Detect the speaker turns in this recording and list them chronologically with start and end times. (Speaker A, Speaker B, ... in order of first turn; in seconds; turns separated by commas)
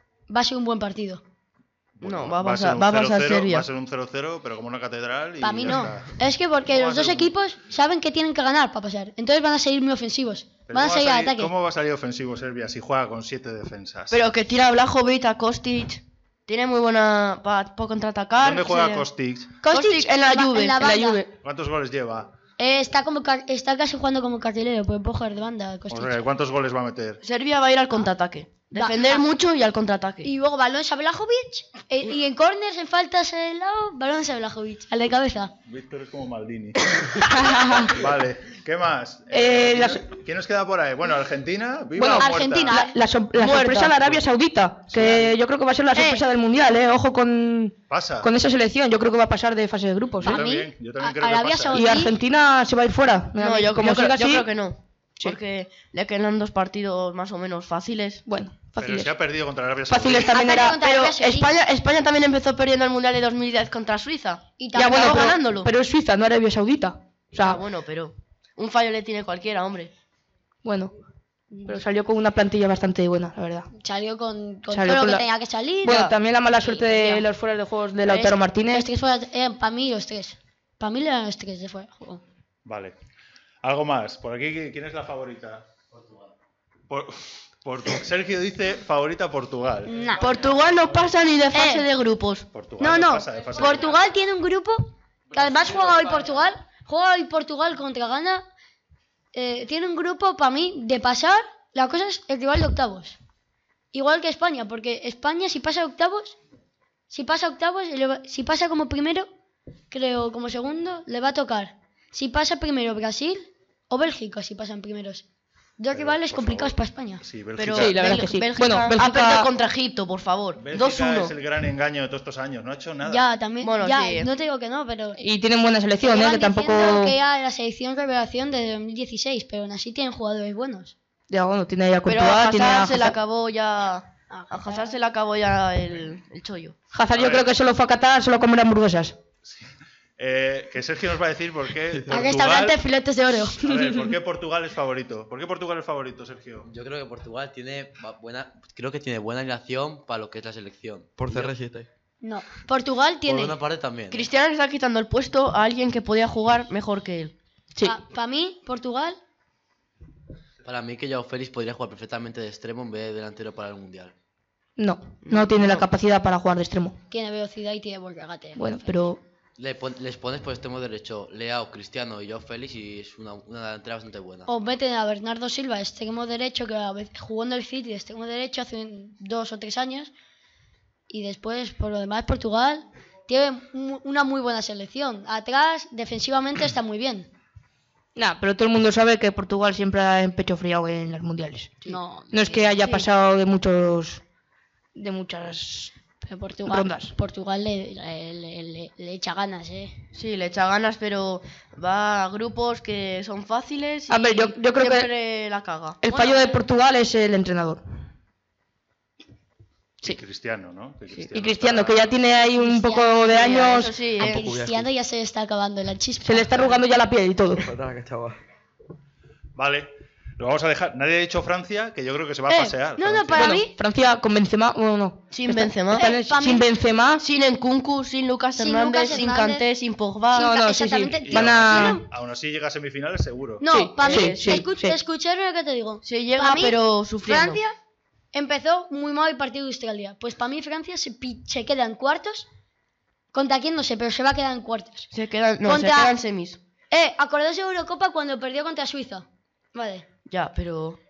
Speaker A: 0.3-1.2, Speaker B: 2.0-7.3, Speaker C: 2.0-3.7, Speaker A: 5.4-11.5, Speaker B: 10.7-14.3, Speaker C: 14.1-19.1, Speaker B: 18.4-19.5, Speaker A: 19.6-21.2, Speaker C: 19.7-20.8, Speaker D: 20.8-21.3, Speaker B: 21.4-22.3, Speaker A: 22.6-26.2, Speaker B: 25.9-27.2, Speaker C: 27.2-30.3, Speaker A: 28.7-29.2, Speaker A: 30.2-35.5, Speaker B: 35.6-37.1, Speaker D: 37.2-37.9, Speaker B: 37.8-42.8, Speaker D: 39.3-40.1, Speaker D: 42.0-50.4, Speaker A: 42.1-43.0, Speaker C: 43.4-43.9, Speaker B: 43.8-44.3, Speaker B: 44.9-45.3, Speaker A: 45.9-46.2, Speaker B: 47.9-48.3, Speaker A: 50.2-52.1, Speaker B: 50.2-51.8, Speaker D: 51.7-54.5, Speaker C: 53.4-58.2, Speaker D: 58.3-59.1, Speaker B: 58.8-60.5, Speaker D: 59.9-60.8, Speaker A: 60.3-61.5, Speaker C: 60.6-65.7, Speaker A: 64.6-65.3, Speaker D: 64.7-67.6, Speaker C: 67.4-69.9, Speaker D: 70.6-70.9, Speaker D: 71.6-73.7, Speaker A: 73.8-77.2, Speaker D: 74.7-75.2, Speaker D: 75.8-78.9, Speaker A: 78.1-82.2, Speaker B: 82.6-83.0, Speaker B: 83.6-85.7, Speaker B: 86.9-90.0, Speaker A: 89.9-90.2, Speaker C: 90.2-92.5, Speaker A: 91.5-91.8, Speaker B: 92.5-93.9, Speaker A: 92.8-98.4, Speaker A: 99.3-103.2, Speaker A: 103.9-106.4, Speaker A: 107.1-109.3, Speaker A: 109.9-115.2, Speaker A: 115.8-117.2, Speaker B: 115.9-118.1, Speaker C: 117.5-121.3, Speaker D: 117.7-119.5, Speaker B: 120.6-123.2, Speaker A: 123.0-125.2, Speaker C: 123.6-124.3, Speaker D: 125.2-127.2, Speaker A: 126.0-130.9, Speaker D: 131.3-133.2, Speaker C: 132.1-136.7, Speaker A: 134.3-134.8, Speaker D: 136.9-139.2, Speaker B: 137.1-137.5, Speaker B: 140.2-142.8, Speaker A: 142.1-143.7, Speaker B: 143.6-146.7, Speaker E: 146.6-151.5, Speaker F: 151.2-151.9, Speaker A: 152.2-153.6, Speaker E: 153.2-154.3, Speaker C: 154.1-157.3, Speaker A: 157.8-159.2, Speaker E: 160.6-164.1, Speaker D: 164.8-167.0, Speaker C: 165.2-165.9, Speaker A: 167.1-168.9, Speaker D: 168.5-169.2, Speaker E: 169.6-174.5, Speaker A: 174.5-180.1, Speaker A: 181.1-187.3, Speaker D: 188.2-194.2, Speaker A: 191.9-192.7, Speaker D: 194.9-195.9, Speaker A: 196.2-199.9, Speaker D: 196.7-197.1, Speaker C: 200.1-206.5, Speaker D: 204.1-205.1, Speaker D: 206.0-207.8, Speaker B: 210.0-212.2, Speaker D: 211.3-214.0, Speaker A: 212.4-216.8, Speaker C: 213.3-214.5, Speaker F: 214.1-214.9, Speaker D: 216.2-217.7, Speaker F: 217.6-218.4, Speaker B: 219.6-223.6, Speaker A: 222.5-223.7, Speaker D: 223.3-227.2, Speaker C: 225.3-226.1, Speaker A: 225.9-226.7, Speaker C: 227.2-230.5, Speaker A: 228.6-229.7, Speaker A: 230.3-232.0, Speaker D: 230.3-232.0, Speaker B: 231.2-233.6, Speaker A: 233.6-237.7, Speaker D: 233.7-235.0, Speaker C: 234.0-234.6, Speaker C: 236.0-237.6, Speaker A: 238.3-242.5, Speaker A: 243.3-245.1, Speaker C: 245.1-246.6, Speaker A: 245.6-246.2, Speaker A: 246.9-250.1, Speaker C: 250.3-251.0